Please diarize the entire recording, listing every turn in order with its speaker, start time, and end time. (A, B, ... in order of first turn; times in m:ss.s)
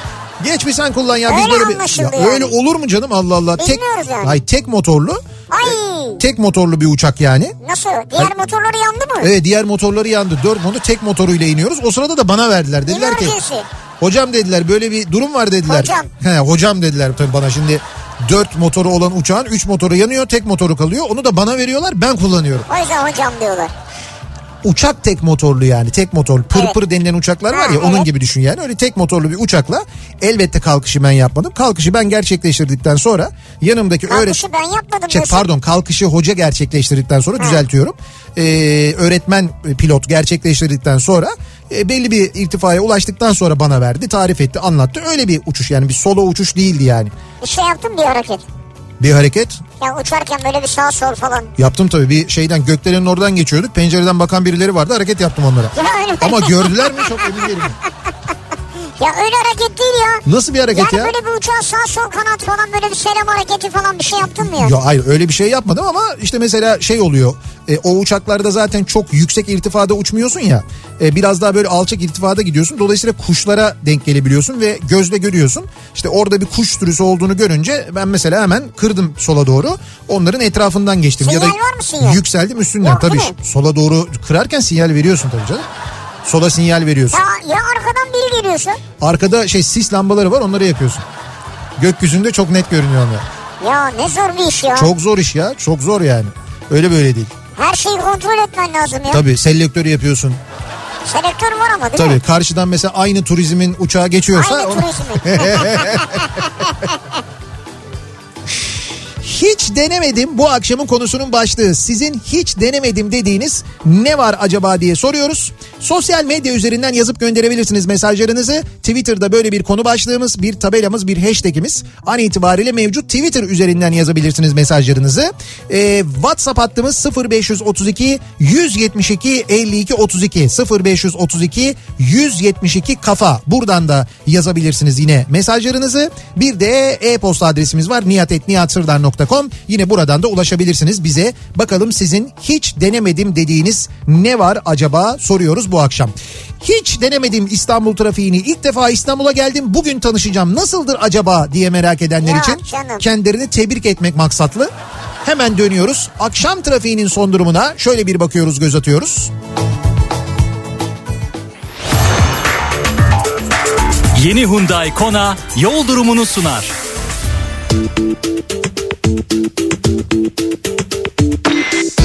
0:00.4-0:07.6 A
0:01.3-0:02.5 B
0:03.6-0:04.4 B
0:05.5-0:06.2 B
0:07.6-0:09.3 B
0:09.2-0:13.4 A
0:12.9-0:13.7 B
0:14.0-0:22.7 A
0:15.7-0:16.1 B
0:22.7-0:23.7 B
0:24.6-0:34.4 A
0:27.5-0:28.1 B
0:34.1-0:35.4 B
0:35.1-0:47.1 A
0:47.4-0:48.4 B
0:49.0-0:49.6 A
0:49.8-0:51.5 B
0:51.6-0:57.8 A
0:55.8-0:57.1 B
0:59.0-1:04.8 B
1:00.3-1:01.1 A
1:04.4-1:25.7 A
1:21.2-1:22.2 B
1:22.8-1:23.3 B
1:26.2-1:27.2 A
1:27.1-1:28.8 B
1:29.0-1:31.0 A
1:31.8-1:33.2 A
1:33.6-1:34.9 B
1:34.8-1:37.3 A
1:37.6-1:39.2 B
1:39.1-1:40.4 A
1:41.0-1:42.2 B
1:42.0-1:46.3 A
1:44.3-1:46.9 B
1:49.2-2:34.7 A
2:32.2-2:33.0 B
2:35.2-2:39.3 A
2:44.2-2:46.7 C